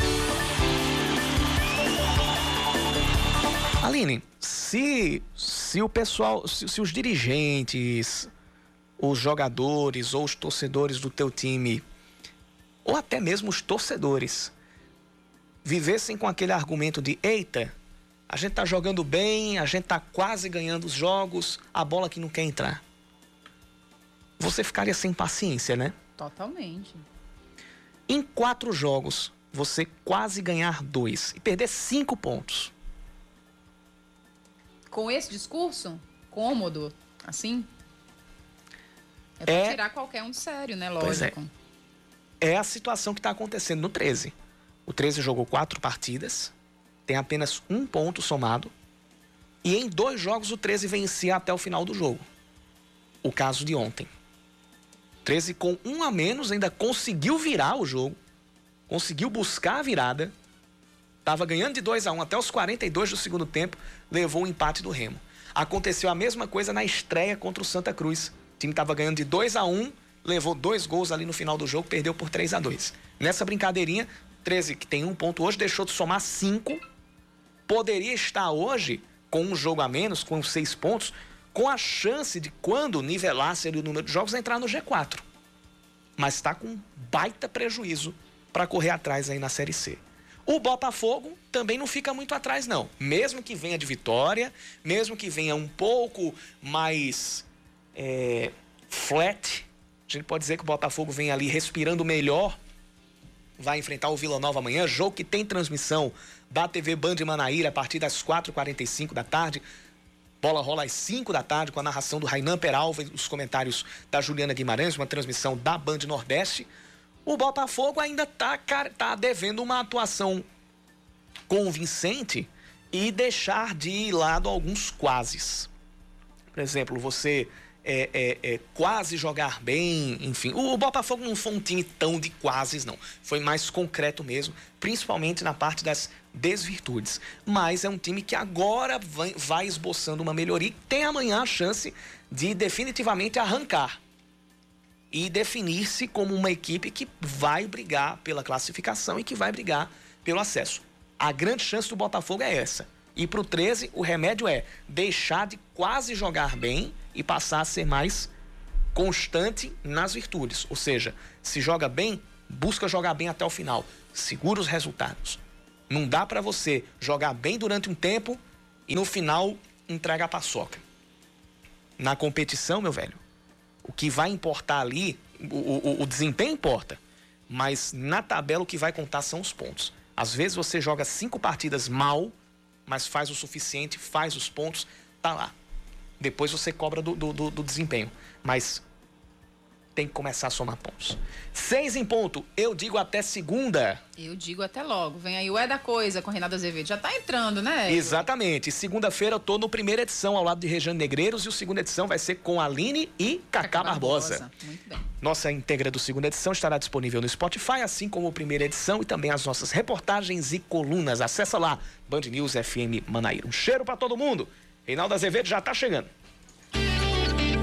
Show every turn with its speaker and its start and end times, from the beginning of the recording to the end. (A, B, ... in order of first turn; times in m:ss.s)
0:03.8-0:08.3 A
0:09.0-0:11.8 A
0:12.8-0:14.5 A
0:15.6-0:17.7 A
0:18.3-0:22.8 A
0:24.4-0:25.9 A
0:26.2-0:27.0 B
0:28.1-0:32.7 A
0:34.9-0:37.7 B
0:39.4-0:41.5 B
0:39.5-0:39.8 A
0:41.0-0:41.3 A
0:42.4-0:44.3 A
0:44.9-0:46.5 A
0:47.1-0:48.7 A
0:49.6-0:52.2 A
0:53.2-0:54.1 A
0:55.2-0:58.2 A
0:58.9-1:00.3 A
1:01.2-1:16.8 A
1:17.7-1:25.2 A
1:26.2-1:42.6 A
1:43.6-1:49.6 A
1:50.4-1:56.7 A
1:57.2-2:00.4 A
2:01.5-2:05.7 A
2:06.5-2:24.0 A
2:25.1-2:38.3 A
2:38.9-2:45.4 A
2:45.9-2:50.8 A
2:52.0-2:53.2 A
2:53.8-3:02.3 A
3:02.9-3:05.5 A
3:06.2-3:08.8 A
3:10.0-3:14.0 A
3:14.2-3:18.2 B
3:17.9-3:24.4 A
3:23.6-3:25.1 B
3:25.2-3:36.1 A